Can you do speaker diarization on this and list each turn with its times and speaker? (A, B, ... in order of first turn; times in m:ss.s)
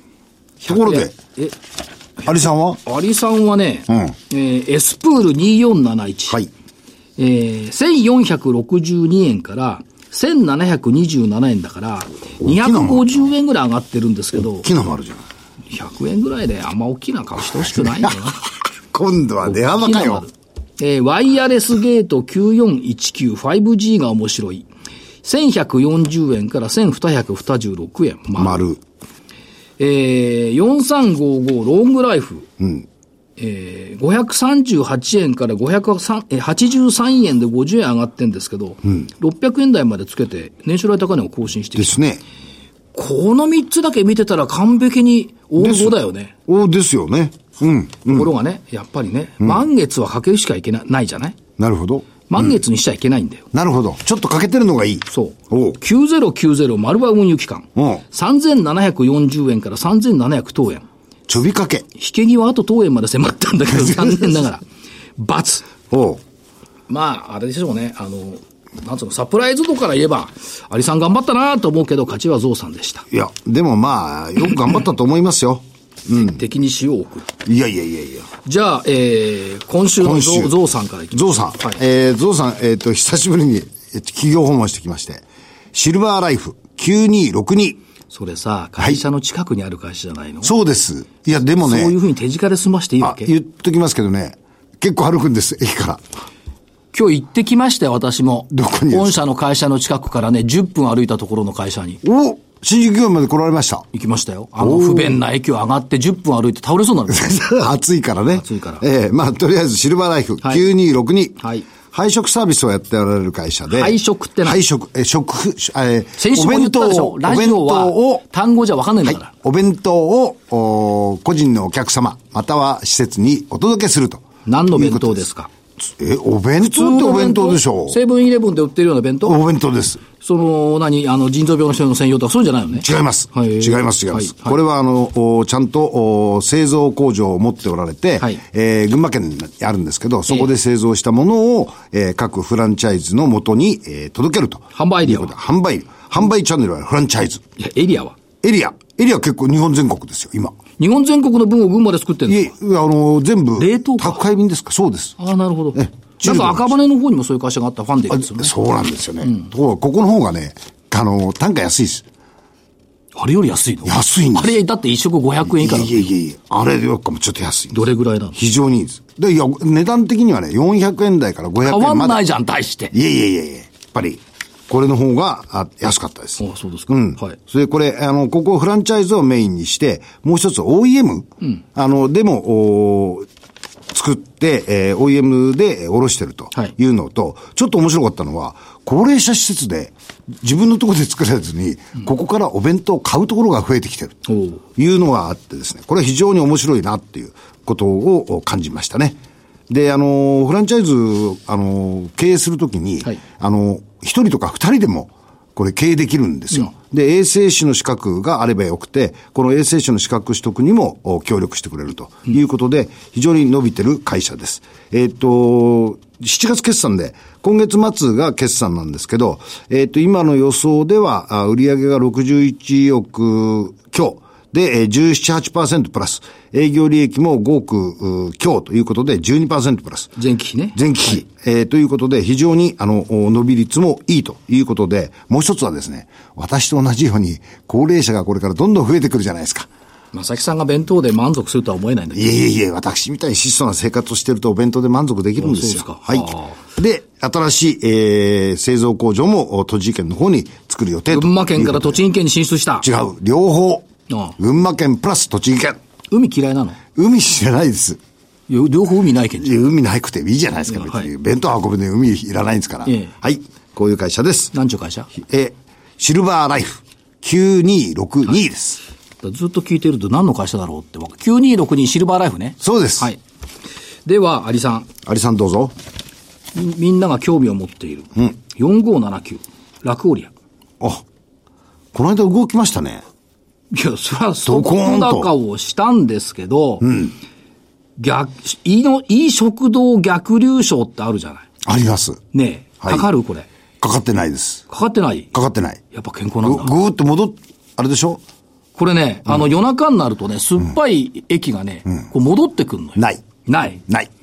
0:00.6-0:01.1 A
0:00.7-0:01.5 B
0:02.2-0:06.4 B
0:02.2-0:02.8 A
0:03.9-0:04.1 A
0:07.2-0:14.6 B
0:12.4-0:13.2 A
0:14.3-0:15.2 A
0:15.7-0:18.4 B
0:17.6-0:20.2 A
0:19.4-0:24.7 B
0:25.2-0:28.6 B
0:28.4-0:28.8 A
0:29.8-0:32.5 B
0:32.6-0:32.8 A
0:33.4-0:42.0 B
0:41.8-0:42.2 A
0:42.9-0:46.3 B
0:45.6-0:48.3 A
0:48.1-0:51.4 B
0:51.6-0:52.4 A
0:52.3-0:53.4 B
0:53.5-0:55.8 A
0:55.1-1:00.8 B
0:57.8-0:58.0 A
1:01.3-1:01.8 A
1:01.9-1:04.6 B
1:03.7-1:04.4 A
1:05.2-1:05.6 B
1:05.9-1:06.2 A
1:06.9-1:13.0 B
1:13.1-1:16.4 A
1:16.1-1:17.3 B
1:17.4-1:18.3 A
1:18.4-1:21.8 B
1:20.0-1:20.5 A
1:21.1-1:27.8 A
1:28.1-1:30.5 B
1:30.4-1:32.0 A
1:31.6-1:33.3 B
1:33.0-1:36.0 A
1:36.9-1:42.0 B
1:38.5-1:39.2 A
1:42.0-1:43.8 A
1:43.9-1:47.3 B
1:44.6-1:45.2 A
1:47.1-1:51.4 A
1:48.4-1:48.8 B
1:51.4-1:51.6 B
1:51.9-1:58.2 A
1:53.7-1:54.6 B
1:56.2-1:59.3 B
1:59.0-2:05.3 A
2:04.4-2:05.5 B
2:05.8-2:08.0 A
2:06.6-2:09.4 B
2:09.2-2:10.0 A
2:10.2-2:14.6 B
2:12.8-2:27.4 A
2:24.7-2:25.3 B
2:27.6-2:28.2 B
2:28.4-2:30.6 A
2:30.8-2:32.5 B
2:32.3-2:35.1 A
2:33.6-2:34.2 B
2:35.2-2:38.5 B
2:35.7-2:36.7 A
2:38.1-2:42.0 A
2:43.2-2:46.1 B
2:43.8-2:44.6 A
2:45.4-2:52.2 A
2:47.7-2:48.4 B
2:51.6-2:52.9 B
2:52.9-3:03.3 A
2:56.4-2:57.4 B
3:03.9-3:14.2 A
3:14.3-3:14.6 B
3:14.8-3:19.2 A
3:19.7-3:50.1 A
3:50.2-3:51.2 B
3:50.7-3:59.7 A
4:00.1-4:02.3 B
4:02.1-4:12.0 A
4:05.4-4:06.6 B
4:11.1-4:12.8 B
4:12.8-4:13.9 A
4:14.1-4:14.3 B
4:14.4-4:15.8 A
4:16.1-4:16.8 B
4:17.0-4:18.0 A
4:18.5-4:19.5 B
4:19.4-4:24.5 A
4:20.7-4:21.1 B
4:22.8-4:23.1 B
4:24.5-4:25.1 B
4:25.1-4:28.8 A
4:29.2-4:33.2 B
4:32.6-4:33.1 A
4:34.0-4:34.9 B
4:35.0-4:35.7 A
4:36.5-4:40.3 B
4:41.9-4:43.0 A
4:43.7-4:46.9 B
4:44.4-4:45.3 A
4:46.8-4:47.1 A
4:48.0-4:51.4 B
4:51.6-4:52.2 A
4:52.3-4:53.5 B
4:52.8-4:53.1 A
4:53.8-4:54.6 A
4:54.7-4:55.3 B
4:55.3-4:55.8 A
4:55.9-4:56.7 B
4:56.4-4:58.2 A
4:58.8-5:03.8 B
5:03.0-5:03.2 A
5:03.8-5:04.1 A